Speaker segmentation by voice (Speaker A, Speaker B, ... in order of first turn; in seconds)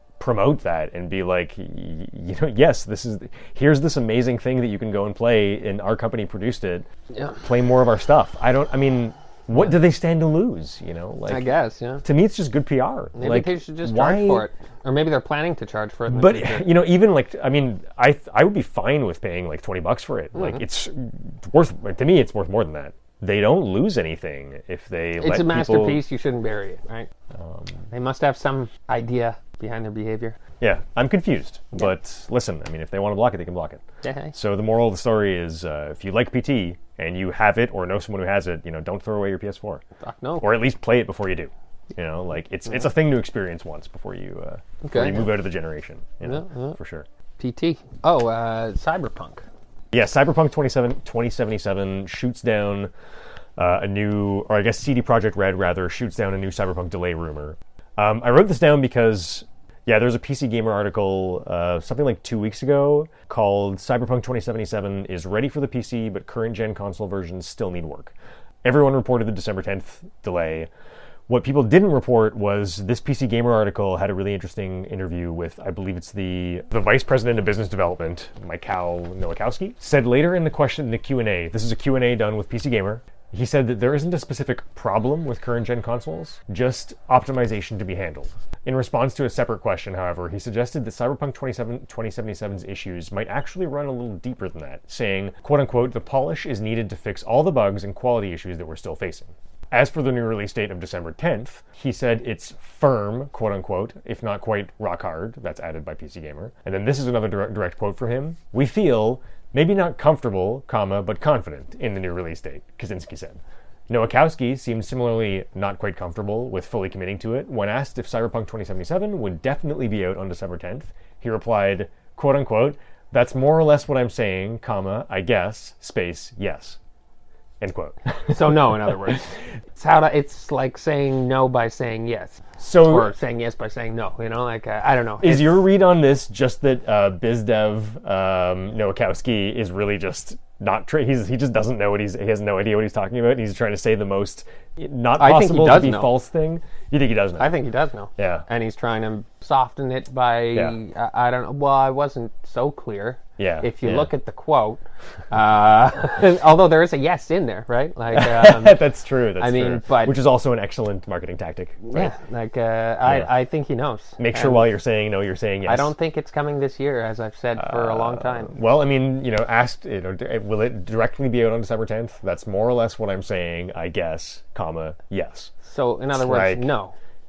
Speaker A: 0.2-6.9, 7.4-11.5, 12.0-14.5, 16.1-26.0, 27.4-27.8, 30.6-39.8, 40.4-47.1, 49.9-52.9, 53.6-70.7, 71.3-126.8, 127.6-129.1, 132.6-133.1, 135.2-147.6, 148.2-148.5, 153.4-154.1, 158.1-162.1, 163.1-163.3, 164.2-165.9, 167.6-175.5, 176.1-176.7
Speaker B: 7.1-7.4, 11.3-12.1, 13.2-16.7, 20.4-20.6, 25.2-27.1, 27.9-30.4, 34.0-34.4, 40.0-40.5, 44.8-45.4, 46.2-46.8, 47.4-49.5, 128.3-135.7, 145.2-146.2, 147.4-158.8, 159.4-160.2, 161.8-164.7, 165.7-168.6, 175.7-176.9